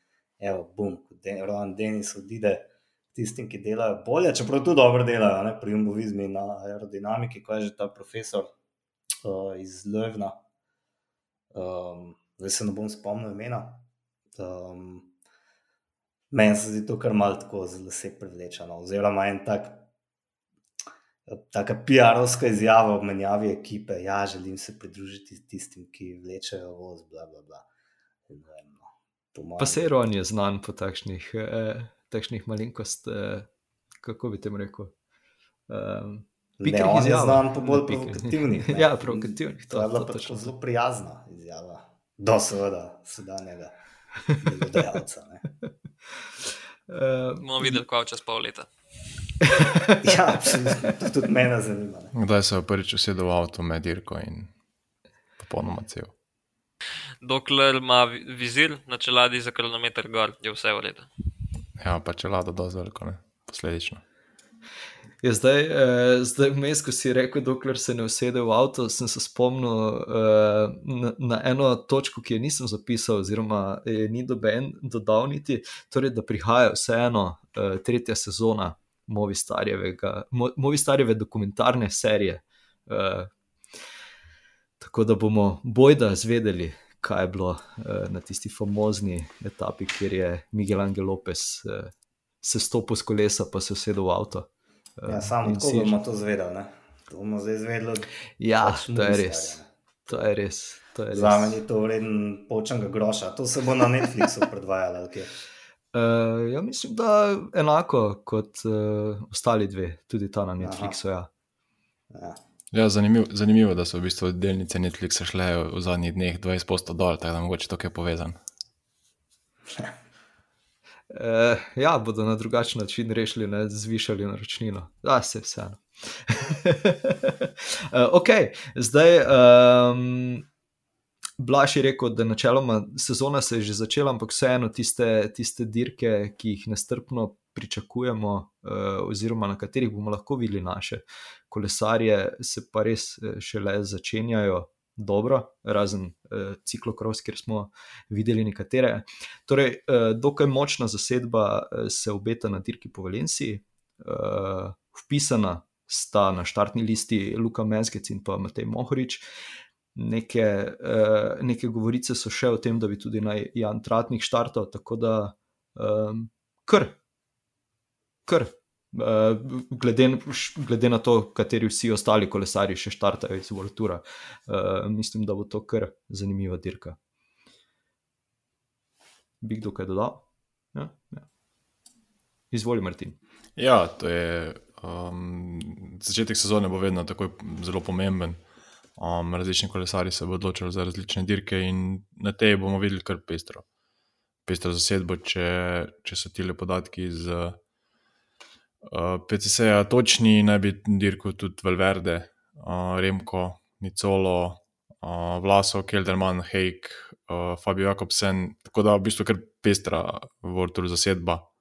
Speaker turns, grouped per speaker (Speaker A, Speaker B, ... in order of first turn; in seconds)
Speaker A: 0.4-8.5, 9.2-10.4, 11.5-13.8, 14.4-15.1, 16.3-19.9, 21.3-27.7, 28.3-29.9, 36.6-43.8, 44.3-45.5, 50.0-52.1, 95.1-99.7, 101.1-105.3, 110.6-111.0, 112.1-112.4
Speaker B: 29.6-33.5, 34.0-34.9, 35.7-40.5, 46.9-47.8, 49.5-50.5, 65.2-83.3, 84.8-94.5, 95.0-96.0, 98.4-101.6, 105.9-111.3, 121.1-130.5, 131.4-159.2, 159.9-167.0, 168.3-177.0, 179.4-181.3, 182.5-183.2
Speaker C: 47.4-48.7, 57.2-61.1
Speaker D: 52.1-54.5, 55.4-56.1, 61.8-64.0, 112.7-118.4, 183.6-188.4, 189.0-193.7, 194.4-197.6, 198.8-211.5